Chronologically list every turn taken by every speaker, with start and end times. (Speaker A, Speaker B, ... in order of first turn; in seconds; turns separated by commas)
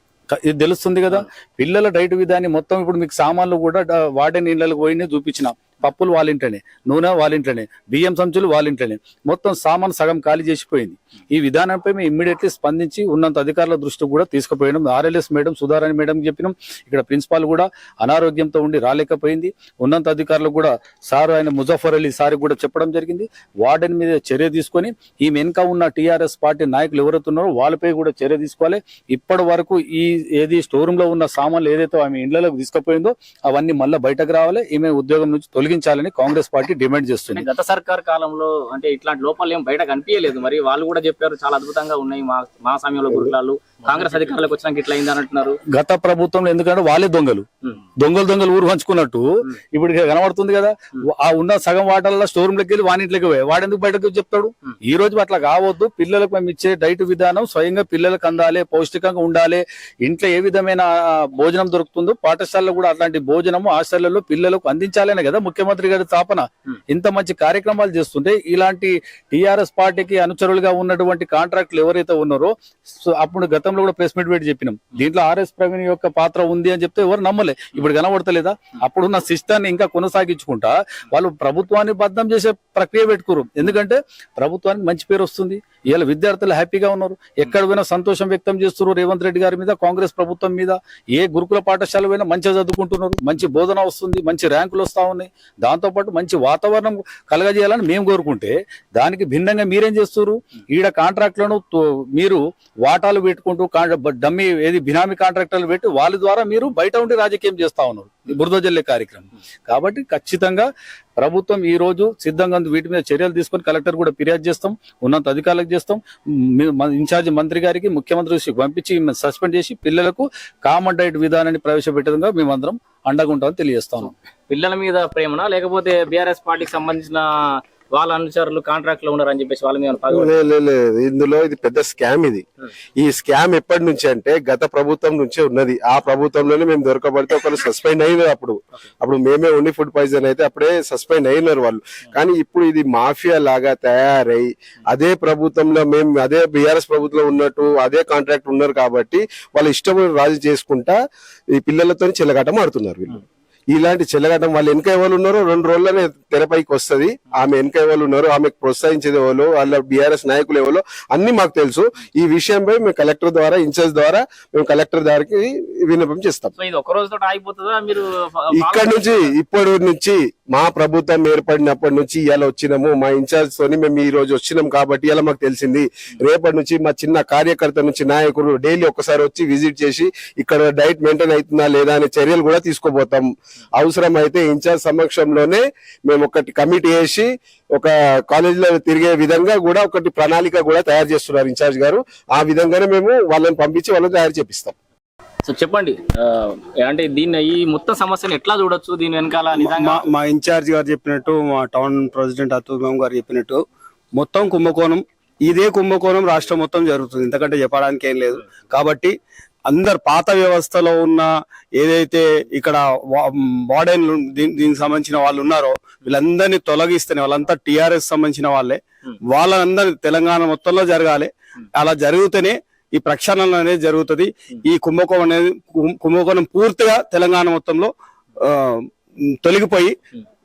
Speaker A: 0.3-37.5, Speaker B: 37.3-45.6, Speaker A: 45.7-124.1, Speaker B: 124.5-130.4, Speaker C: 130.1-132.4, Speaker C: 133.0-151.0, Speaker C: 151.5-166.5, Speaker B: 166.6-169.3, Speaker C: 168.6-194.7, Speaker B: 195.4-200.0, Speaker D: 199.6-203.6, Speaker D: 204.1-209.1, Speaker D: 209.7-228.9, Speaker D: 229.4-229.9